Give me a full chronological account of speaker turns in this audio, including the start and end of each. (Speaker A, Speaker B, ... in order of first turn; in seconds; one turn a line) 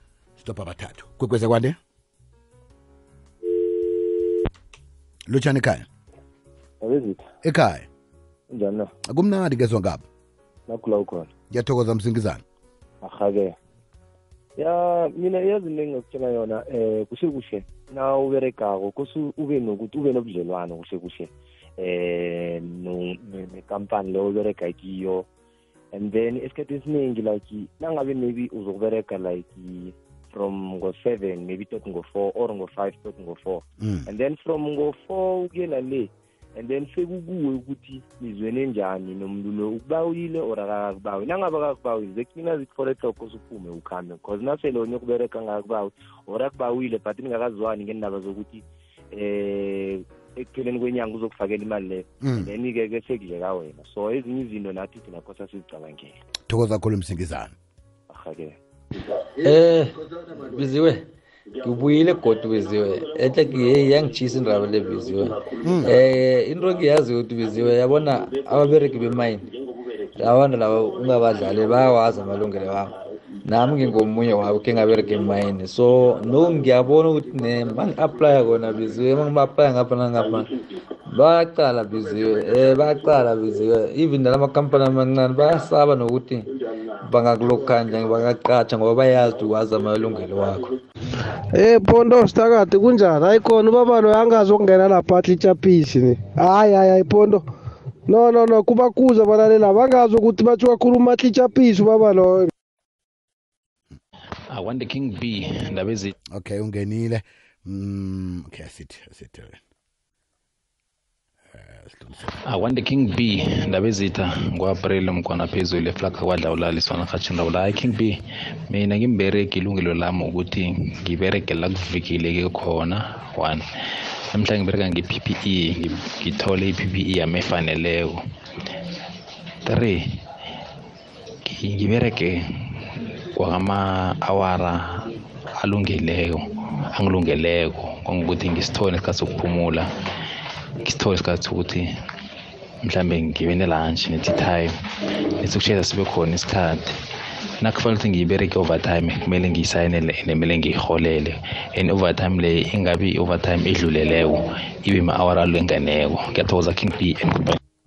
Speaker A: 0.4-1.8
Speaker A: 5.3-5.9
Speaker B: 6.8-7.2
Speaker A: 7.4-7.9
Speaker B: 8.5-8.9
Speaker A: 9.1-10.0
Speaker B: 10.7-11.3
Speaker A: 11.5-12.4
Speaker B: 13.0-13.5
Speaker B: 14.6-25.2
Speaker B: 25.9-56.2
Speaker A: 33.8-34.1
Speaker A: 52.2-52.5
Speaker A: 56.5-57.5
Speaker B: 58.1-58.6
Speaker C: 59.3-61.0
Speaker C: 61.6-69.5
Speaker A: 65.6-65.9
Speaker C: 70.2-80.5
Speaker C: 81.1-86.5
Speaker C: 87.0-90.7
Speaker D: 91.5-97.4
Speaker D: 98.1-102.5
Speaker E: 104.5-106.1
Speaker A: 106.4-109.6
Speaker A: 111.5-112.3
Speaker E: 112.5-118.2
Speaker E: 118.7-123.6
Speaker E: 124.3-128.2
Speaker E: 129.7-130.0
Speaker E: 131.5-136.4
Speaker E: 136.9-139.9
Speaker E: 140.8-141.9
Speaker E: 142.8-144.7
Speaker E: 145.4-146.9
Speaker E: 147.6-157.6